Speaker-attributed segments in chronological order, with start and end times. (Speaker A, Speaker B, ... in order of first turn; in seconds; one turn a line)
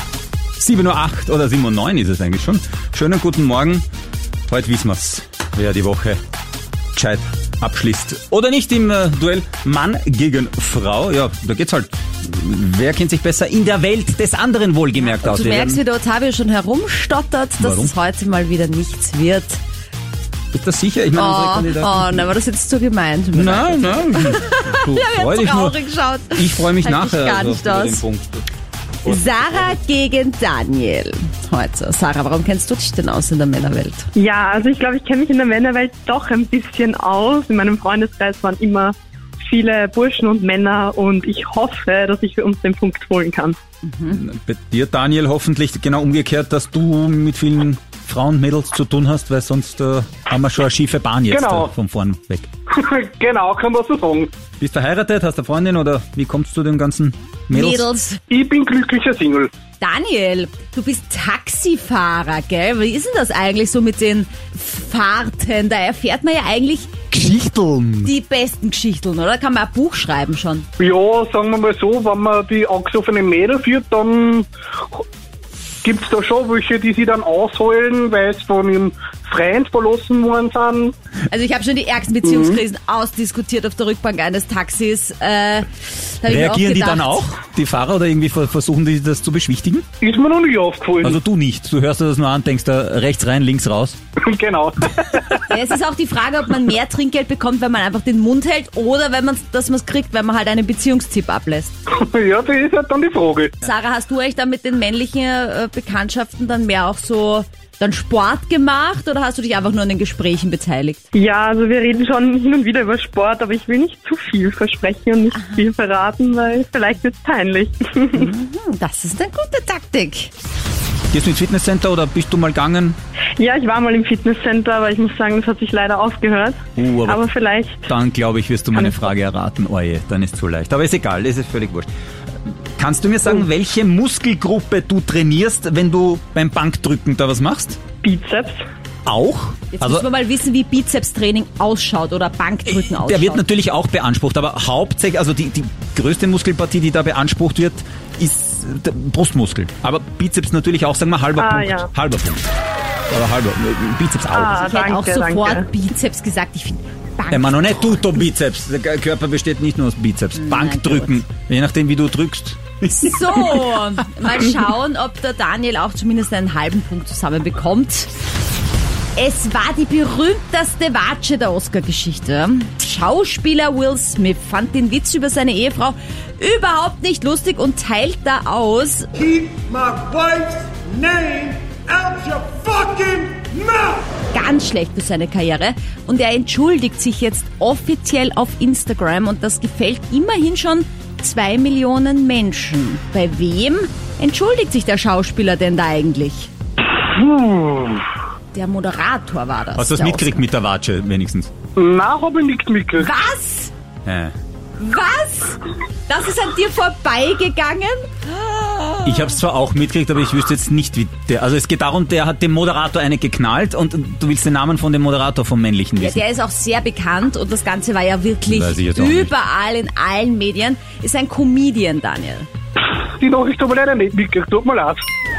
Speaker A: 0.6-3.9
Speaker A: 4.5-6.2
Speaker A: 7.0-15.8
Speaker B: 15.0-19.6
Speaker A: 17.6-17.9
Speaker A: 20.5-22.3
Speaker B: 21.1-28.0
Speaker A: 23.4-25.8
Speaker A: 26.3-28.4
Speaker A: 29.1-29.7
Speaker B: 29.1-34.1
Speaker C: 34.1-43.6
Speaker B: 43.9-44.2
Speaker A: 44.1-52.5
Speaker D: 51.3-51.7
Speaker D: 52.7-54.3
Speaker A: 54.6-57.9
Speaker B: 57.5-58.2
Speaker D: 58.3-59.5
Speaker B: 59.8-67.0
Speaker A: 67.1-68.1
Speaker B: 68.0-70.7
Speaker D: 70.8-74.5
Speaker D: 75.8-80.9
Speaker B: 81.3-87.2
Speaker D: 82.2-82.6
Speaker A: 86.3-89.8
Speaker D: 90.0-91.2
Speaker A: 91.0-94.0
Speaker D: 94.2-95.4
Speaker B: 95.4-101.8
Speaker D: 101.9-103.5
Speaker B: 103.6-111.0
Speaker C: 111.1-118.3
Speaker B: 115.3-115.6
Speaker B: 118.1-120.3
Speaker A: 121.1-123.0
Speaker C: 123.4-127.9
Speaker A: 126.8-127.2
Speaker A: 127.9-131.9
Speaker C: 128.7-129.1
Speaker A: 132.4-137.8
Speaker C: 138.0-138.6
Speaker A: 139.1-140.1
Speaker B: 139.7-143.4
Speaker A: 142.7-152.4
Speaker C: 151.4-151.9
Speaker A: 153.1-154.6
Speaker C: 154.3-155.7
Speaker B: 154.5-158.1
Speaker A: 157.3-163.9
Speaker B: 160.3-161.2
Speaker B: 163.0-168.1
Speaker B: 169.2-179.5
Speaker E: 179.5-183.9
Speaker B: 184.3-196.5
Speaker D: 196.9-198.1
Speaker B: 198.5-200.5
Speaker A: 199.8-201.5
Speaker D: 201.8-203.1
Speaker B: 203.0-203.7
Speaker A: 204.1-204.3
Speaker B: 204.8-209.4
Speaker A: 209.1-216.2
Speaker B: 216.0-222.5
Speaker A: 218.5-219.3
Speaker D: 223.2-225.0